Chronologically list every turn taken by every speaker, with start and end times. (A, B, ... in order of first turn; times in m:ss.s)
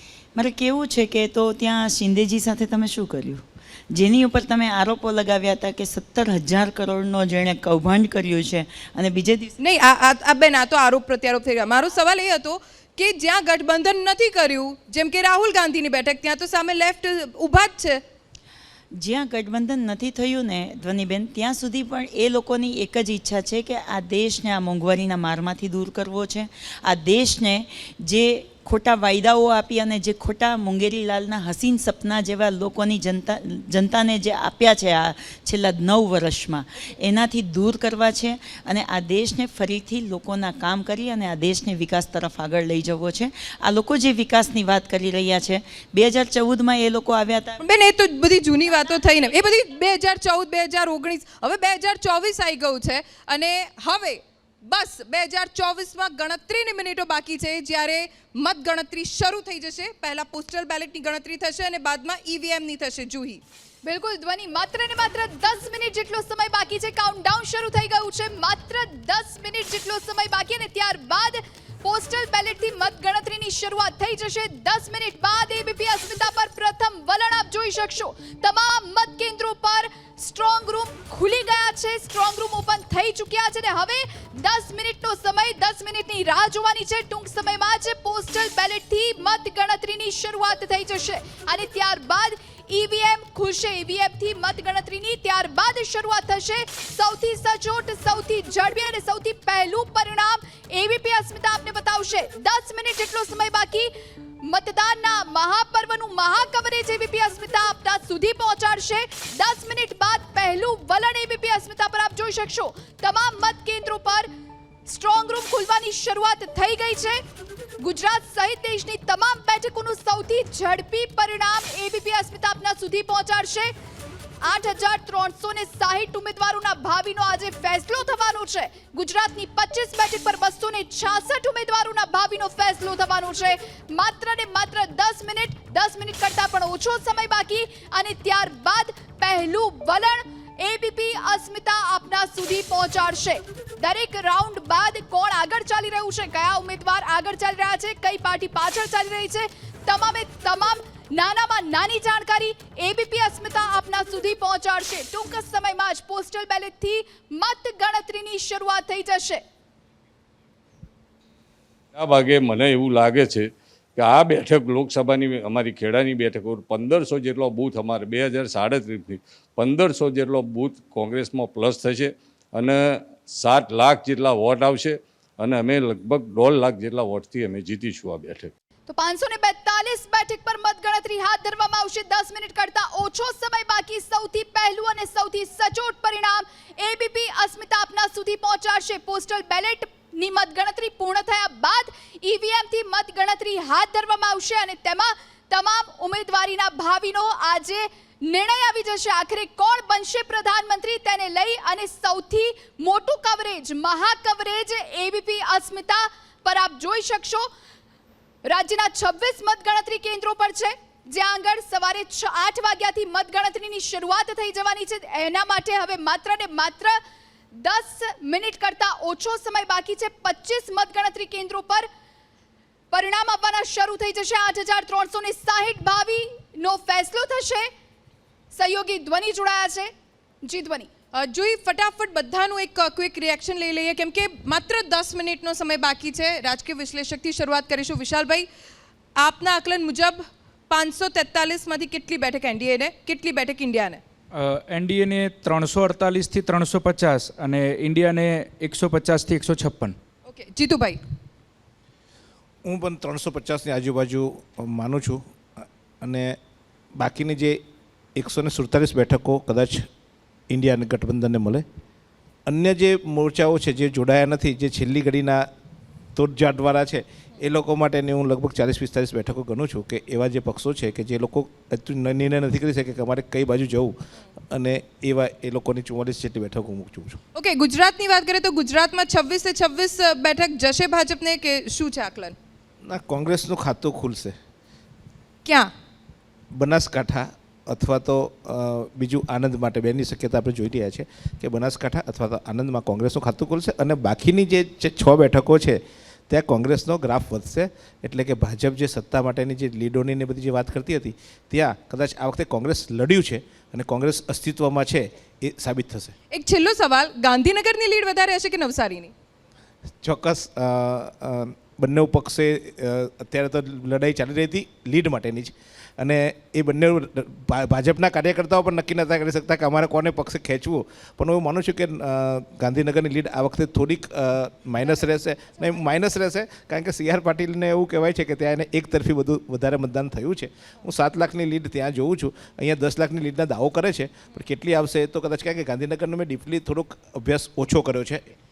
0:00.4-0:09.5 A
0:09.6-0:18.0 B
0:19.0-0:47.6 A
0:47.6-1:03.4 B
1:03.8-1:43.9 C
1:44.4-1:54.3 C
1:54.9-1:57.2 C
1:57.8-2:03.7 C
2:04.4-2:39.4 C
2:42.0-2:58.5 D
2:58.9-3:27.5 C
3:28.5-3:37.0 C
3:37.5-3:41.9 C
3:42.9-3:47.7 C
3:48.5-3:49.9 C
3:50.4-3:50.9 C
3:51.2-3:58.5 B
3:59.2-4:04.0 B
4:04.3-4:10.0 E
4:10.2-4:11.0 B
4:12.6-4:16.4 F
4:17.0-4:17.6 F
4:18.2-4:19.9 F
4:20.5-4:21.6 F
4:22.5-4:25.5 F
4:26.2-4:34.0 F
4:34.5-4:37.2 F
4:37.4-4:42.4 B
4:42.8-4:44.4 F
4:45.4-4:45.7 B
4:46.5-5:06.1 F
5:06.3-5:09.1 B
5:10.0-5:38.3 F